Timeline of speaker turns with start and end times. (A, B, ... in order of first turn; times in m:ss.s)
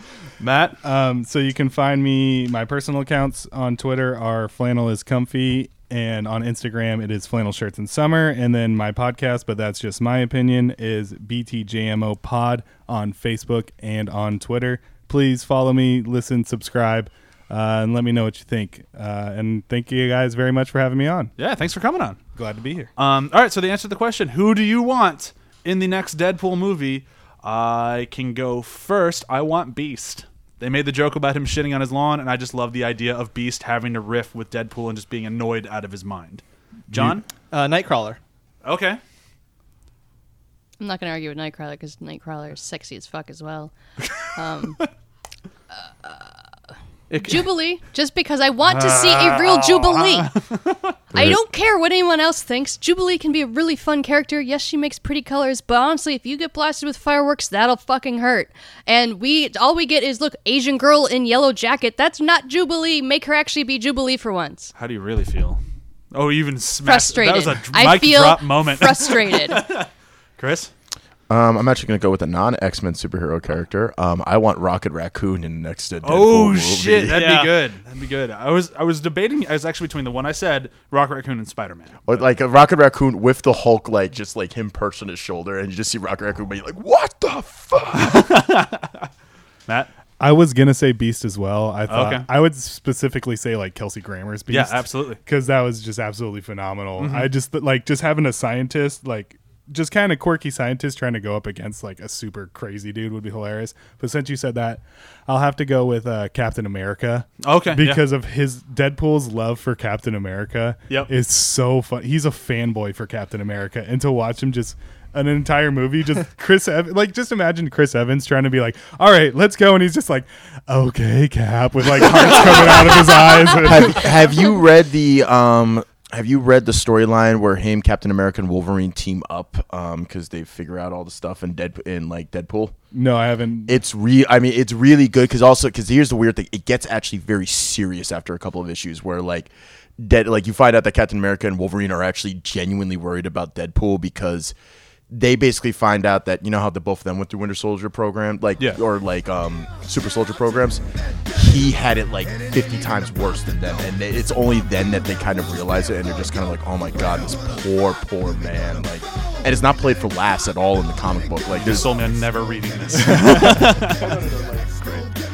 0:00.4-0:00.8 A
0:00.8-0:21.3 B
0:21.4-0:22.2 A
0:22.4-0:22.9 B
0:23.0-0:37.2 A
0:37.5-0:38.2 C
0:38.6-0:39.0 A
0:40.8-0:43.7 D
0:44.0-0:44.9 A
0:44.4-0:44.8 D
0:47.1-0:47.5 C
0:47.2-0:50.3 D
0:48.6-0:51.0 A
0:51.1-0:51.4 E
0:51.1-1:04.7 D
1:04.8-1:05.6 A
1:06.1-1:10.7 A
1:06.8-1:09.6 D
1:11.3-1:17.2 E
1:16.0-1:22.3 A
1:17.1-1:17.6 C
1:22.1-1:28.3 E
1:28.0-1:29.1 A
1:30.2-2:04.1 B
1:31.9-1:32.3 A
1:34.5-1:35.2 A
1:37.0-1:37.3 A
1:47.4-1:48.0 A
2:03.6-2:12.8 E
2:12.9-2:13.8 B
2:13.7-2:24.5 E
2:25.1-2:41.9 E
2:41.6-2:44.2 A
2:44.2-2:44.6 C